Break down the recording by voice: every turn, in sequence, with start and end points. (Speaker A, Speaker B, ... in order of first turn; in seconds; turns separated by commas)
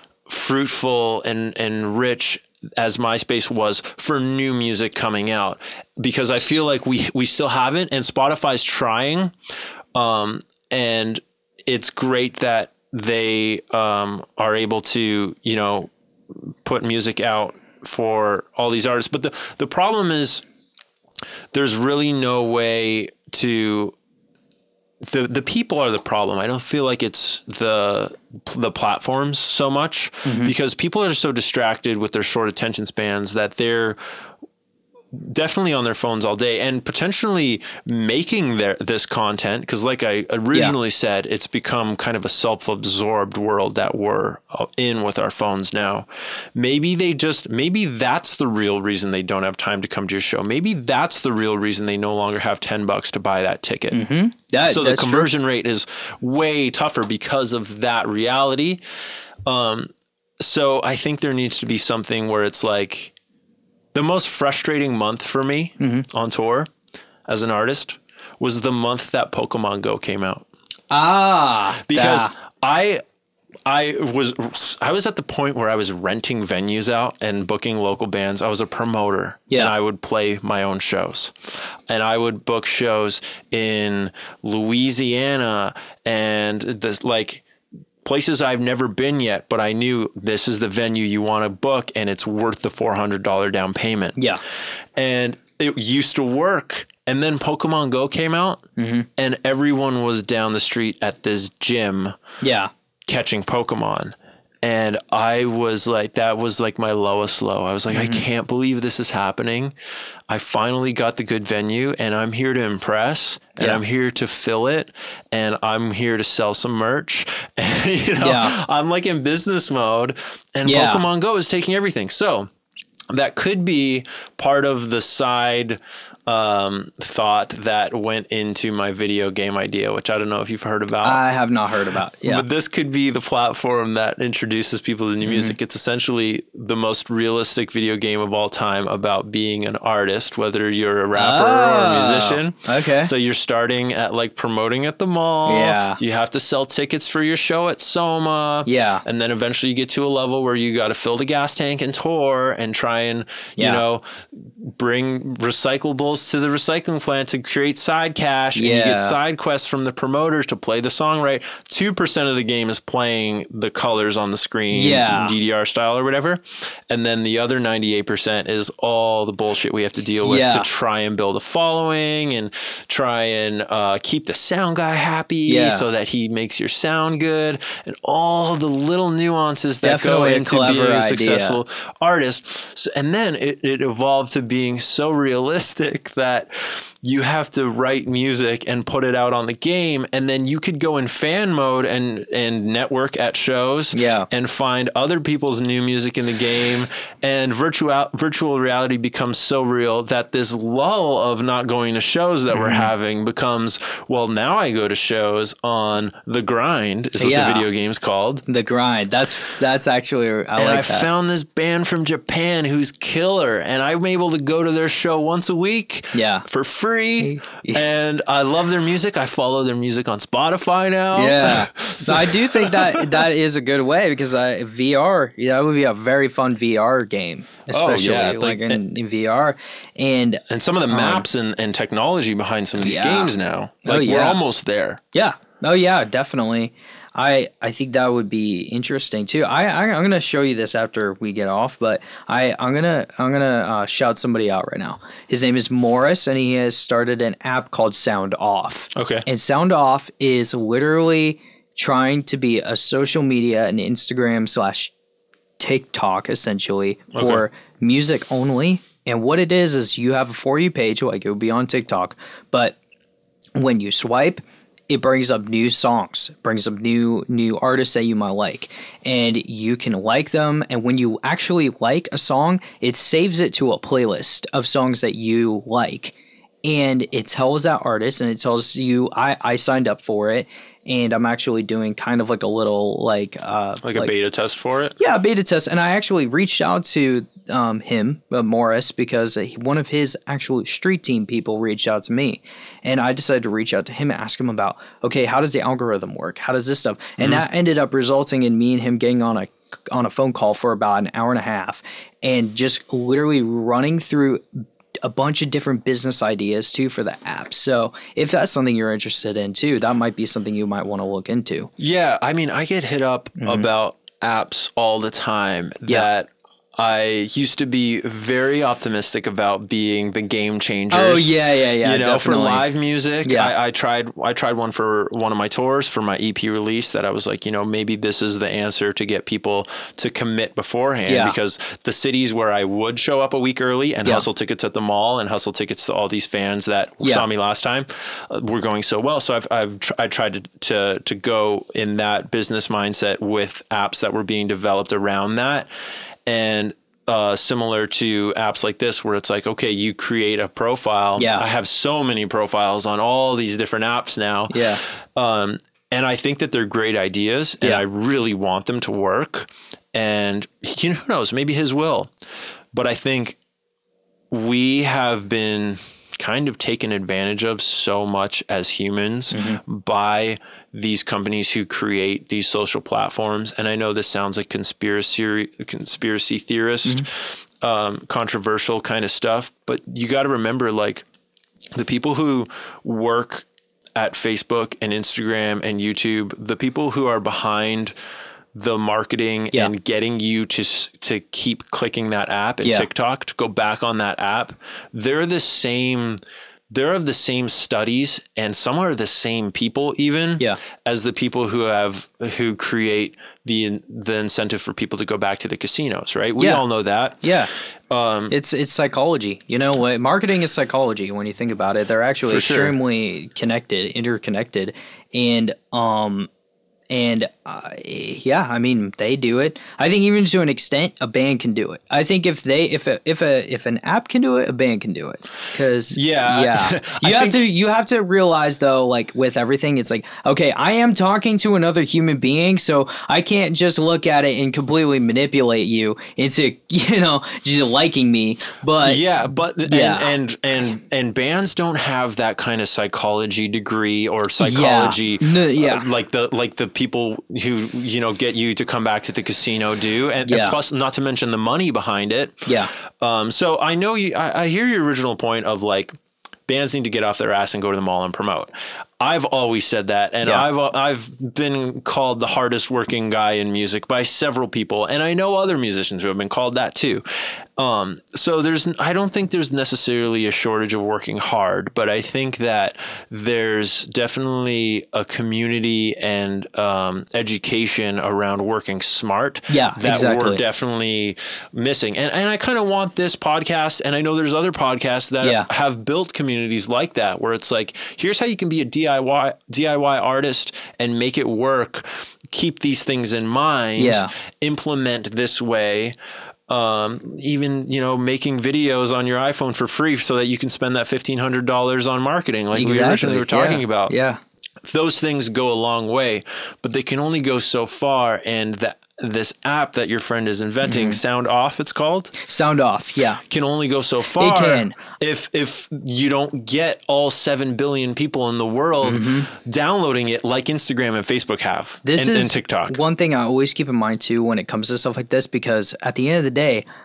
Speaker A: 0.3-9.3, Speaker A: 9.9-15.9, Speaker A: 16.4-20.4, Speaker A: 21.5-23.9, Speaker A: 25.0-34.0, Speaker B: 30.2-30.5, Speaker A: 35.1-54.0, Speaker B: 53.9-55.3, Speaker A: 54.6-58.8, Speaker A: 59.5-63.1, Speaker A: 63.9-66.7, Speaker B: 65.8-66.0, Speaker A: 67.3-70.5, Speaker B: 70.9-72.3, Speaker A: 71.8-73.0, Speaker A: 73.7-87.4, Speaker A: 88.0-94.2, Speaker B: 94.2-94.4, Speaker A: 95.0-98.6, Speaker B: 98.8-99.1, Speaker A: 99.2-102.1, Speaker B: 102.4-102.7, Speaker A: 103.1-109.7, Speaker B: 107.9-108.2, Speaker A: 110.3-122.5, Speaker B: 118.2-118.6, Speaker B: 120.6-121.0, Speaker A: 123.1-131.2, Speaker B: 131.0-132.4, Speaker A: 132.2-208.4, Speaker B: 135.2-135.6, Speaker B: 141.1-143.1, Speaker B: 145.4-146.0, Speaker B: 148.7-149.0, Speaker B: 158.5-159.2, Speaker B: 164.7-165.3, Speaker B: 170.2-170.7, Speaker B: 175.5-175.8, Speaker B: 179.7-181.6, Speaker B: 193.9-194.3, Speaker B: 202.5-202.9, Speaker B: 207.2-207.7, Speaker B: 208.4-211.1, Speaker A: 210.6-223.2, Speaker B: 216.1-216.4, Speaker B: 217.2-217.8, Speaker B: 221.1-231.2, Speaker A: 227.7-228.8, Speaker A: 230.5-235.0, Speaker B: 232.8-233.3, Speaker B: 233.8-234.4, Speaker B: 235.1-254.9, Speaker A: 248.9-249.2, Speaker B: 255.6-262.8, Speaker A: 257.1-257.4, Speaker B: 263.6-284.1, Speaker A: 283.8-285.0, Speaker B: 285.0-311.7, Speaker A: 297.2-297.4, Speaker A: 311.8-345.7, Speaker B: 313.4-313.7, Speaker B: 320.9-322.6, Speaker B: 323.2-323.5, Speaker B: 331.1-331.3, Speaker A: 346.2-362.1, Speaker B: 351.1-351.4, Speaker B: 354.5-354.8, Speaker A: 362.7-363.4, Speaker A: 364.3-381.0, Speaker B: 369.3-369.6, Speaker A: 381.8-387.9, Speaker A: 388.5-396.2, Speaker B: 392.6-392.9, Speaker A: 396.7-407.3, Speaker B: 406.4-406.6, Speaker B: 407.2-407.5, Speaker A: 407.9-408.3, Speaker B: 408.3-416.3, Speaker A: 412.2-412.7, Speaker B: 416.9-439.0, Speaker A: 425.9-427.5, Speaker A: 438.8-455.9, Speaker B: 439.6-440.1, Speaker B: 444.4-445.9, Speaker B: 450.3-450.6, Speaker B: 452.4-452.7, Speaker A: 456.5-467.0, Speaker A: 467.6-495.9, Speaker B: 479.5-480.4, Speaker B: 493.8-494.1, Speaker A: 496.5-503.9, Speaker B: 502.5-504.2, Speaker A: 504.6-512.2, Speaker B: 510.6-511.0, Speaker B: 512.2-513.2, Speaker A: 513.2-522.8, Speaker B: 514.2-514.8, Speaker B: 518.8-519.3, Speaker B: 521.8-526.6